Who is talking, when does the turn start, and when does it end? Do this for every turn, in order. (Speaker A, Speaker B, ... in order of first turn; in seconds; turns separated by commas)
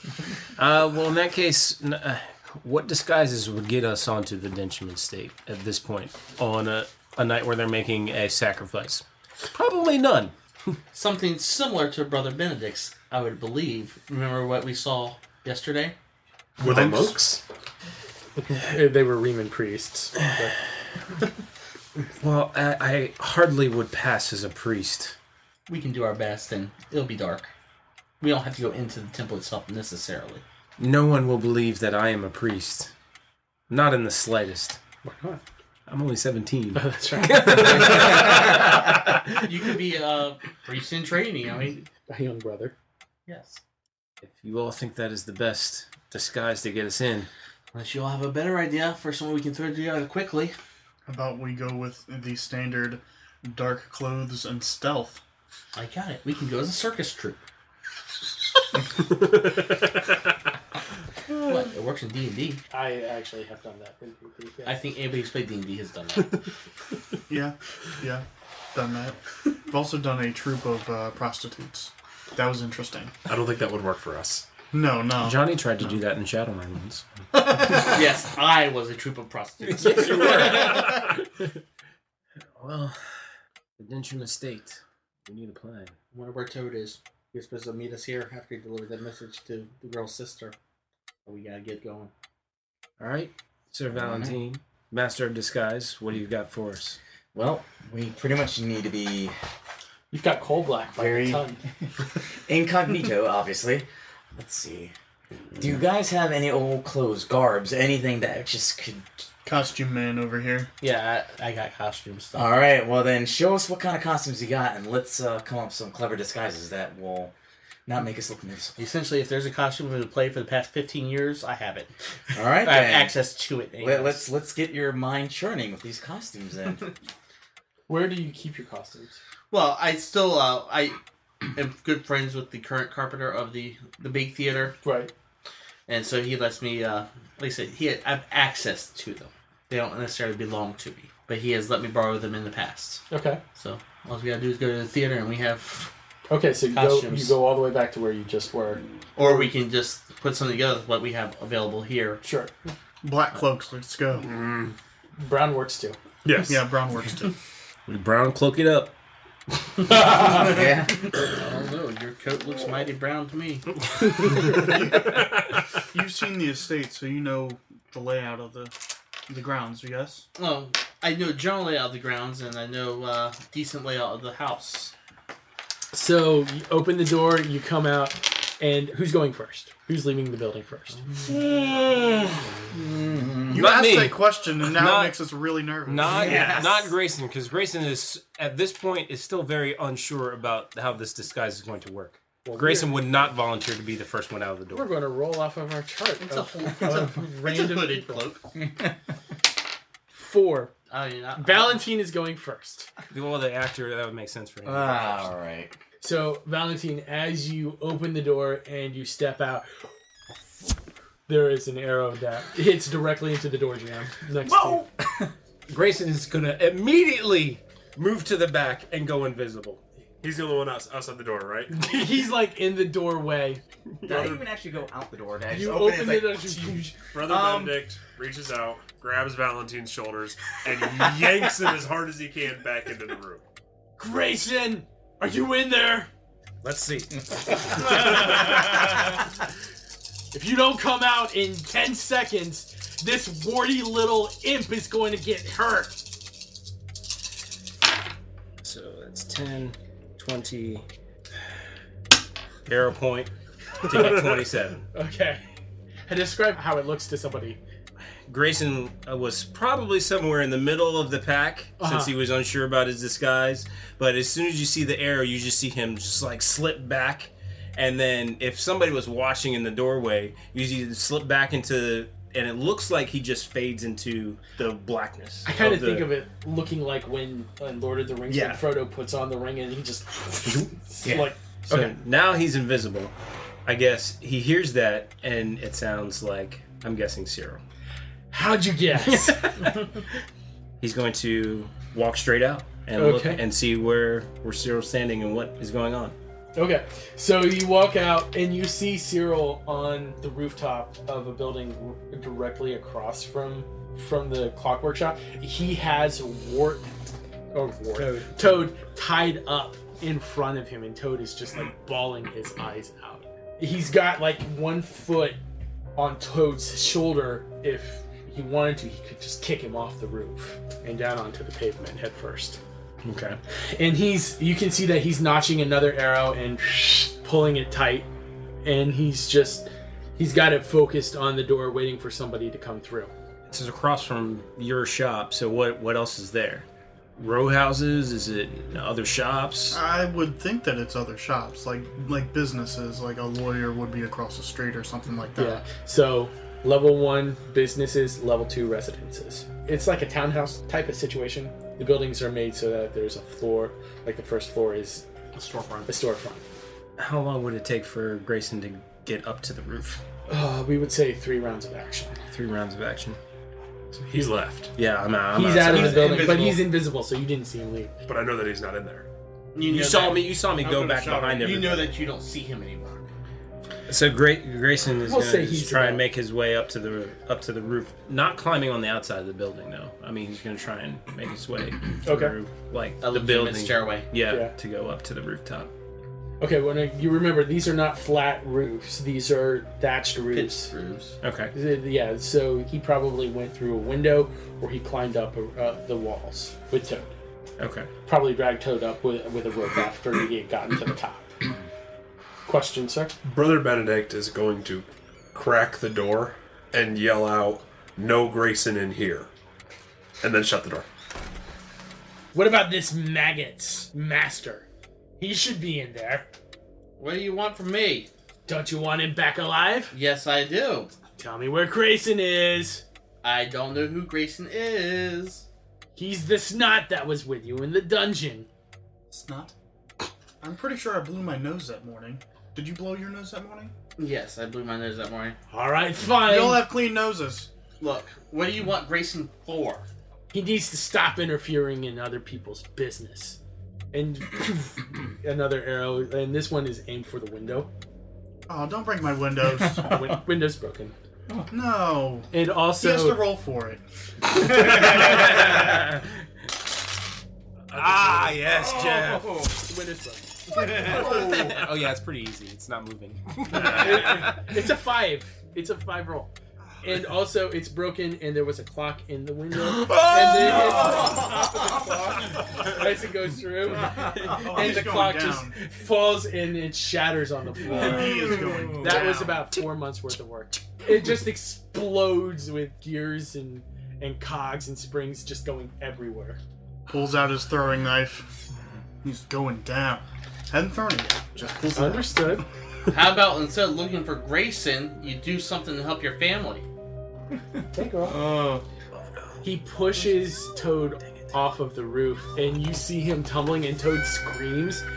Speaker A: 0.6-10.8, Speaker B: 10.9-15.9, Speaker C: 16.6-17.4, Speaker D: 16.6-17.1, Speaker E: 18.4-20.6, Speaker A: 22.2-25.1, Speaker B: 25.7-27.5, Speaker B: 28.2-30.4, Speaker A: 30.8-32.9, Speaker A: 33.7-34.8, Speaker E: 35.0-35.4, Speaker A: 35.9-38.7, Speaker E: 36.7-38.0, Speaker B: 37.6-41.9, Speaker E: 42.1-42.7, Speaker B: 43.3-43.6, Speaker A: 44.2-47.3, Speaker B: 47.7-50.5, Speaker D: 51.1-55.2, Speaker B: 55.7-57.4, Speaker C: 59.0-60.2, Speaker B: 61.3-62.6, Speaker E: 62.7-64.8, Speaker B: 64.7-66.4, Speaker D: 67.3-73.2, Speaker C: 73.3-74.5, Speaker D: 74.7-75.4, Speaker A: 75.2-77.0, Speaker B: 77.7-81.1, Speaker A: 79.6-81.5, Speaker A: 82.5-83.2, Speaker A: 83.8-85.9, Speaker B: 86.1-90.5, Speaker B: 91.2-92.1, Speaker A: 93.0-97.0, Speaker F: 93.9-94.3, Speaker F: 97.3-99.3, Speaker E: 100.1-101.6, Speaker F: 100.9-101.4, Speaker F: 102.5-104.9, Speaker F: 105.6-109.2, Speaker D: 109.4-110.7, Speaker B: 110.8-112.5, Speaker F: 112.3-117.3, Speaker F: 117.9-118.9, Speaker B: 118.8-121.9, Speaker F: 122.3-123.2, Speaker B: 122.6-124.2, Speaker F: 123.8-126.9, Speaker E: 127.9-129.2, Speaker B: 129.5-131.0, Speaker B: 131.5-134.8, Speaker E: 134.8-135.1, Speaker B: 135.9-145.9, Speaker E: 143.1-143.4, Speaker E: 146.3-149.5, Speaker B: 146.7-147.3, Speaker B: 149.2-152.2, Speaker E: 152.2-152.5, Speaker D: 153.0-154.3, Speaker C: 154.2-154.8, Speaker E: 155.2-156.0, Speaker C: 156.2-156.6, Speaker D: 156.4-157.3, Speaker A: 157.9-158.9, Speaker B: 160.2-160.6, Speaker F: 160.3-161.1, Speaker B: 161.1-163.8, Speaker D: 164.5-165.2, Speaker C: 165.1-165.6, Speaker D: 165.9-168.7, Speaker D: 169.3-170.3, Speaker B: 170.4-174.9, Speaker E: 175.9-181.0, Speaker B: 181.0-181.3, Speaker F: 181.3-183.6, Speaker D: 183.5-186.2, Speaker A: 183.5-185.2, Speaker A: 185.9-194.9, Speaker F: 186.0-186.9, Speaker E: 192.4-193.0, Speaker E: 194.7-198.2, Speaker B: 196.2-198.4, Speaker F: 198.6-198.9, Speaker E: 200.1-200.7, Speaker B: 200.9-201.8, Speaker E: 201.3-202.9, Speaker A: 203.1-205.3, Speaker F: 204.6-205.7, Speaker E: 206.0-209.6, Speaker E: 211.3-214.8, Speaker F: 214.4-215.3, Speaker A: 215.7-219.8, Speaker C: 220.2-221.8, Speaker E: 221.7-223.6, Speaker C: 224.0-224.4, Speaker F: 224.0-227.8, Speaker E: 225.5-226.9, Speaker C: 227.1-233.4, Speaker E: 234.0-236.1, Speaker A: 236.6-238.7, Speaker E: 240.3-246.0, Speaker A: 248.6-250.8, Speaker A: 252.7-254.8, Speaker E: 253.9-254.2, Speaker E: 254.9-255.4, Speaker E: 256.1-257.6, Speaker A: 258.3-276.1, Speaker E: 261.8-262.1, Speaker E: 275.4-281.9, Speaker A: 278.3-278.6, Speaker A: 280.4-283.1, Speaker A: 283.6-287.6, Speaker E: 288.3-289.9, Speaker A: 289.2-289.7, Speaker A: 290.8-296.1, Speaker E: 292.9-293.4, Speaker E: 296.5-306.9, Speaker E: 307.5-315.4, Speaker A: 307.9-308.7, Speaker E: 315.9-322.6, Speaker A: 323.0-323.4, Speaker E: 323.7-328.1, Speaker E: 328.6-333.1, Speaker A: 333.5-336.6, Speaker A: 337.2-339.8, Speaker D: 339.7-345.6, Speaker E: 345.4-355.0, Speaker B: 355.3-355.9, Speaker E: 355.9-356.4, Speaker A: 357.0-360.0, Speaker E: 360.3-362.2, Speaker A: 362.3-363.2, Speaker C: 363.9-364.7, Speaker A: 364.8-366.5, Speaker E: 365.3-367.9, Speaker B: 365.5-366.7, Speaker C: 368.1-369.1, Speaker B: 369.5-373.0, Speaker A: 369.6-371.9, Speaker A: 373.9-385.7, Speaker E: 375.0-376.0, Speaker E: 382.0-382.3, Speaker B: 383.0-384.1, Speaker E: 384.3-384.5, Speaker E: 386.4-390.7, Speaker B: 390.3-391.1, Speaker A: 391.2-391.5, Speaker E: 391.5-397.1, Speaker A: 397.6-397.9, Speaker E: 398.1-401.3, Speaker E: 402.4-403.1, Speaker C: 403.2-409.3, Speaker C: 410.2-410.9, Speaker E: 412.3-414.6, Speaker E: 415.2-416.3, Speaker B: 417.0-418.1, Speaker E: 418.5-419.9, Speaker B: 419.9-420.9, Speaker E: 421.2-422.8, Speaker B: 423.2-425.4, Speaker E: 425.9-428.5, Speaker D: 429.1-429.5, Speaker D: 430.4-433.7, Speaker B: 434.0-435.4, Speaker E: 435.5-436.6, Speaker D: 436.1-437.5, Speaker B: 437.8-439.9, Speaker E: 440.3-443.4, Speaker E: 443.9-447.7, Speaker D: 448.5-449.9, Speaker E: 449.7-450.9, Speaker D: 451.5-453.8, Speaker E: 452.3-453.2, Speaker A: 454.4-456.1, Speaker C: 457.7-458.2, Speaker A: 457.7-459.4, Speaker F: 458.5-459.5, Speaker E: 459.7-461.0, Speaker A: 460.7-464.5, Speaker F: 460.8-461.5, Speaker E: 463.5-486.4, Speaker A: 469.8-471.1, Speaker F: 470.5-471.6, Speaker A: 474.1-474.4, Speaker D: 474.3-475.6, Speaker D: 477.6-479.3, Speaker A: 477.8-478.7, Speaker F: 478.0-478.7, Speaker D: 486.9-488.3, Speaker D: 489.0-492.3, Speaker E: 491.7-492.4, Speaker B: 492.9-496.6, Speaker E: 497.7-498.2, Speaker F: 498.0-498.6, Speaker E: 499.4-504.8